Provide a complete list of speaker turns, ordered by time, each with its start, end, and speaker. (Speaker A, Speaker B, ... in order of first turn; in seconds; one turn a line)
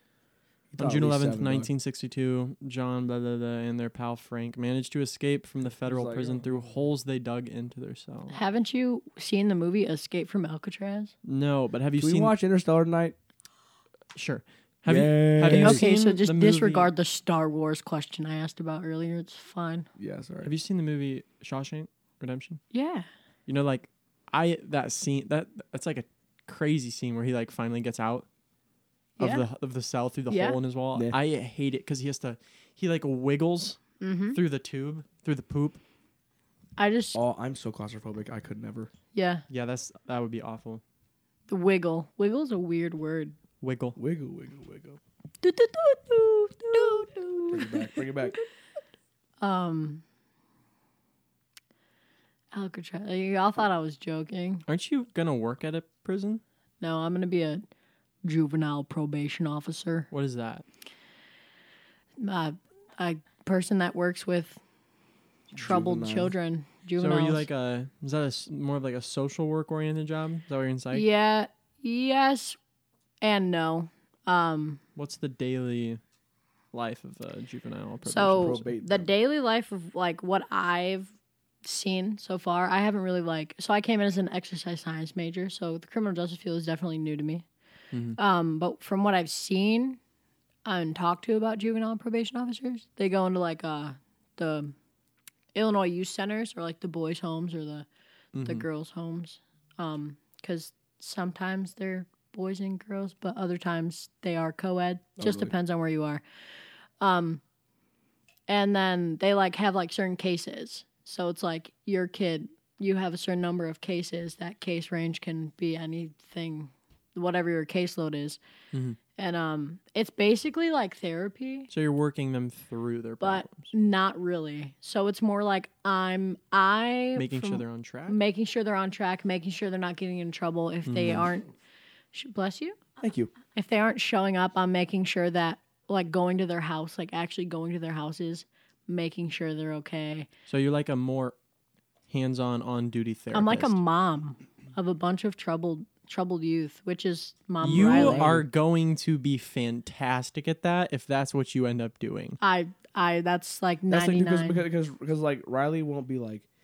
Speaker A: 0.7-8.4
Speaker B: 0.8-1.7
Speaker B: 5.8-6.5
Speaker C: 8.3-11.1
Speaker A: 11.2-12.3
Speaker B: 12.0-13.1
Speaker A: 14.1-16.9
Speaker B: 14.8-15.8
Speaker C: 15.5-19.9
Speaker B: 20.0-20.5
Speaker A: 20.4-22.6
Speaker C: 22.7-23.1
Speaker A: 23.5-28.2
Speaker C: 29.2-29.4
Speaker A: 29.2-35.8
Speaker C: 30.3-30.6
Speaker C: 34.0-34.4
Speaker C: 36.8-37.2
Speaker B: 37.1-38.9
Speaker C: 39.1-39.4
Speaker A: 39.5-40.8
Speaker C: 41.5-43.4
Speaker A: 43.6-44.0
Speaker B: 44.0-45.0
Speaker C: 45.4-48.4
Speaker B: 47.5-48.4
Speaker C: 49.4-50.0
Speaker C: 52.5-54.6
Speaker A: 54.7-56.4
Speaker C: 56.8-57.6
Speaker C: 58.2-60.1
Speaker A: 60.1-60.6
Speaker C: 62.2-64.6
Speaker C: 65.5-67.4
Speaker B: 65.5-66.3
Speaker A: 67.0-71.0
Speaker C: 70.9-72.6
Speaker C: 73.2-74.8
Speaker A: 75.0-76.0
Speaker A: 76.7-78.6
Speaker C: 78.1-87.5
Speaker B: 78.3-79.1
Speaker A: 87.9-88.2
Speaker C: 88.2-90.0
Speaker C: 90.6-94.7
Speaker C: 95.5-97.9
Speaker A: 98.3-98.6
Speaker C: 98.4-106.2
Speaker B: 105.2-105.5
Speaker C: 107.0-107.4
Speaker C: 108.5-118.4
Speaker A: 118.7-119.0
Speaker C: 119.2-121.7
Speaker A: 121.7-123.7
Speaker C: 123.2-131.5
Speaker A: 127.2-128.2
Speaker A: 130.9-131.3
Speaker C: 132.1-132.8
Speaker B: 133.0-133.3
Speaker C: 133.5-140.3
Speaker A: 140.5-141.3
Speaker A: 142.1-143.8
Speaker C: 143.3-148.3
Speaker A: 147.6-152.4
Speaker B: 147.7-148.4
Speaker C: 152.4-154.6
Speaker B: 153.9-156.4